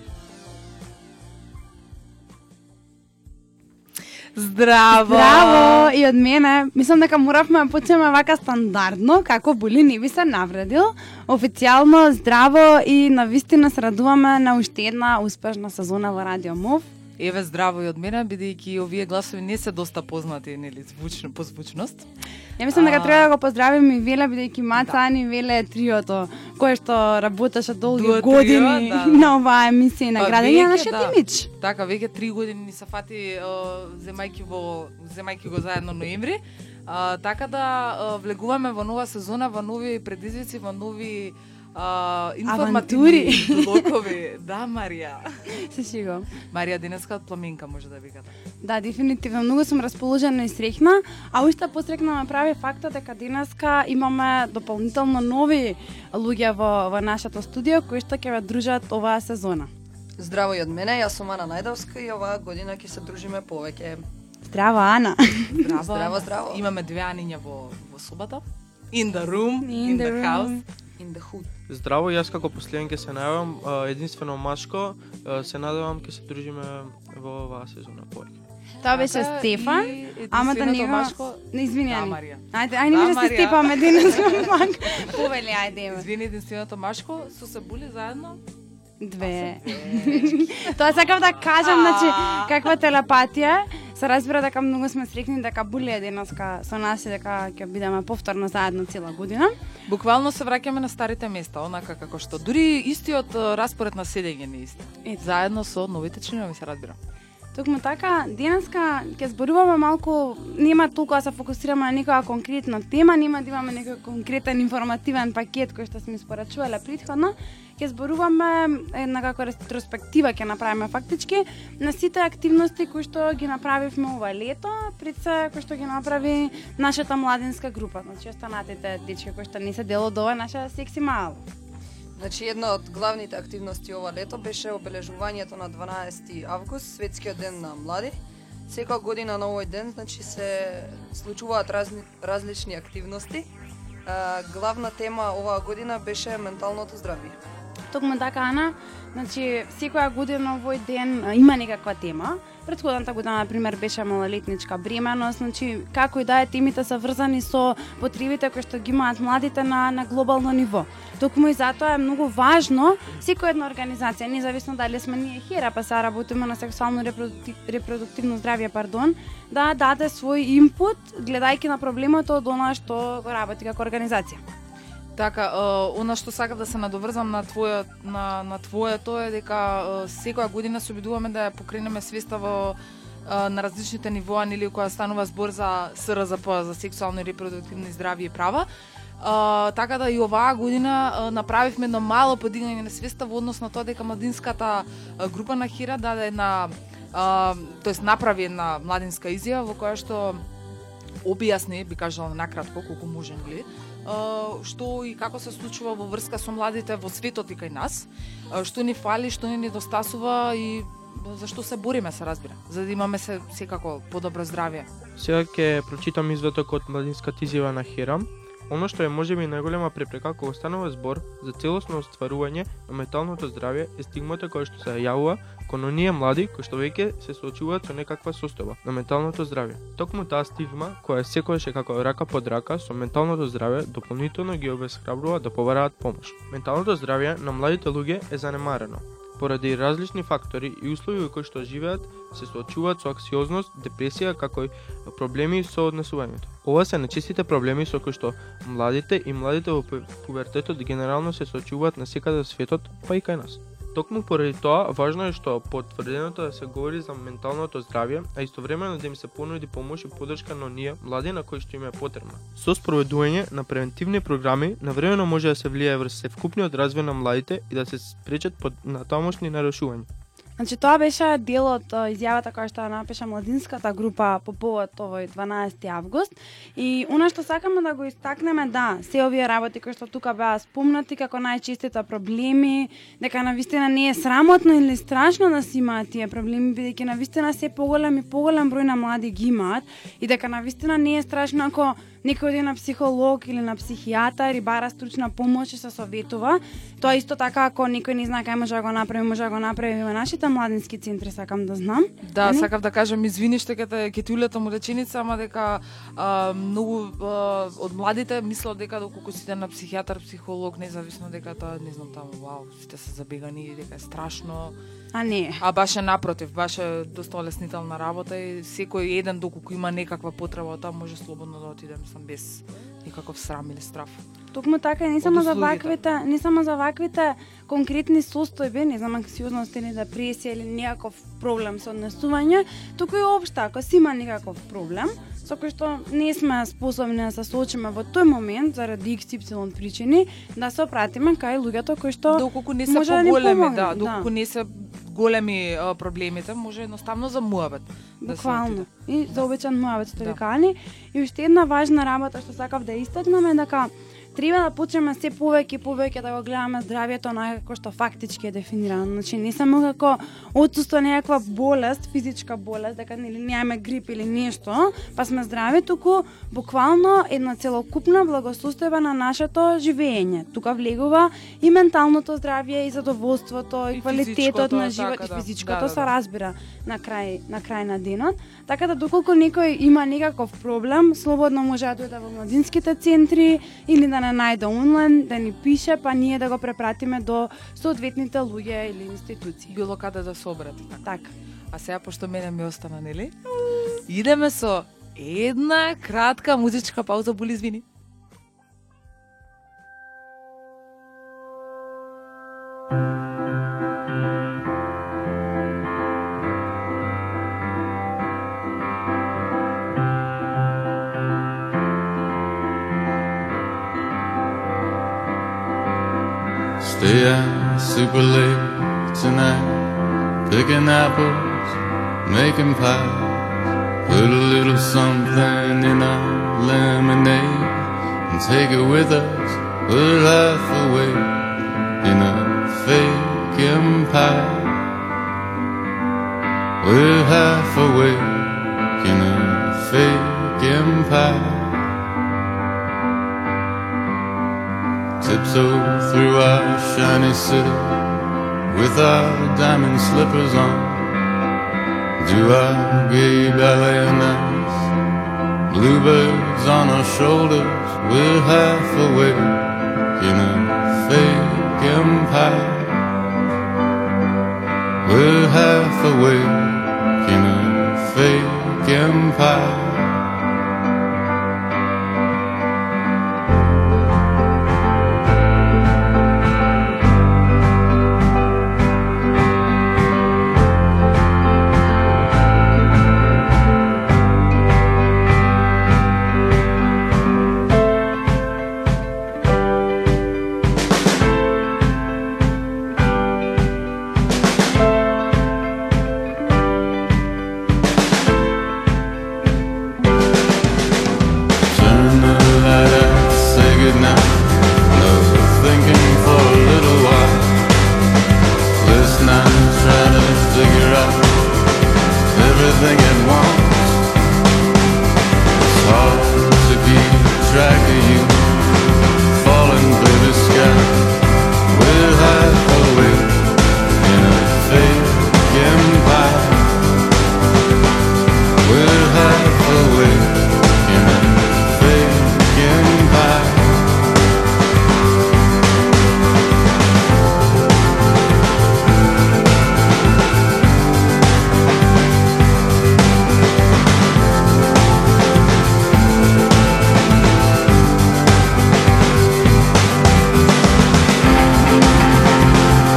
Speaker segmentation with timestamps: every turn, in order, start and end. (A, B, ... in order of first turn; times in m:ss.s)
0:04.3-0:05.9 A
0:04.9-0:16.9 B
0:17.2-0:22.1 A
0:22.6-0:31.5 B
0:22.7-0:23.3 A
0:27.9-0:29.3 A
0:30.2-0:45.5 A
0:42.4-0:43.9 B
0:45.5-0:46.3 B
0:46.5-0:48.3 A
0:48.6-0:59.7 B
1:00.2-1:04.0 C
1:04.4-1:05.6 B
1:05.5-1:10.6 A
1:05.7-1:06.6 C
1:09.6-1:10.6 B
1:11.0-1:11.5 C
1:11.7-1:18.4 D
1:18.8-1:26.0 B
1:18.9-1:25.2 A
1:25.9-1:28.4 A
1:29.0-1:39.5 B
1:29.2-1:32.7 A
1:39.9-1:47.0 A
1:47.5-2:11.4 B
2:12.2-2:18.2 C
2:18.7-2:23.5 C
2:24.0-2:27.4 C
2:27.9-2:54.4 B
2:55.1-3:08.7 A
3:09.2-3:20.4 A
3:21.2-3:34.9 A
3:35.2-4:30.1 D
4:30.6-5:02.7 B
5:02.2-5:14.8 A
5:15.1-5:15.6 B
5:15.6-5:24.2 A
5:24.5-5:44.3 B
5:25.2-5:25.9 A
5:42.3-5:49.4 A
5:48.2-6:29.7 B
6:13.9-6:16.1 A
6:29.7-6:31.1 A
6:31.0-6:31.3 B
6:31.7-6:33.4 A
6:34.1-6:37.8 A
6:56.8-6:59.9 E
7:00.5-7:11.5 E
7:12.0-7:14.8 E
7:16.8-7:21.8 E
7:25.2-7:28.1 E
7:28.7-7:31.2 E
7:32.2-7:34.9 E
7:35.7-7:43.1 E
7:45.0-7:50.2 E
8:21.7-8:27.6 E
8:28.8-8:31.4 E
8:32.3-8:34.0 E
8:35.5-8:38.6 E
8:39.3-8:41.1 E
8:41.7-8:46.9 E
8:48.6-8:54.2 E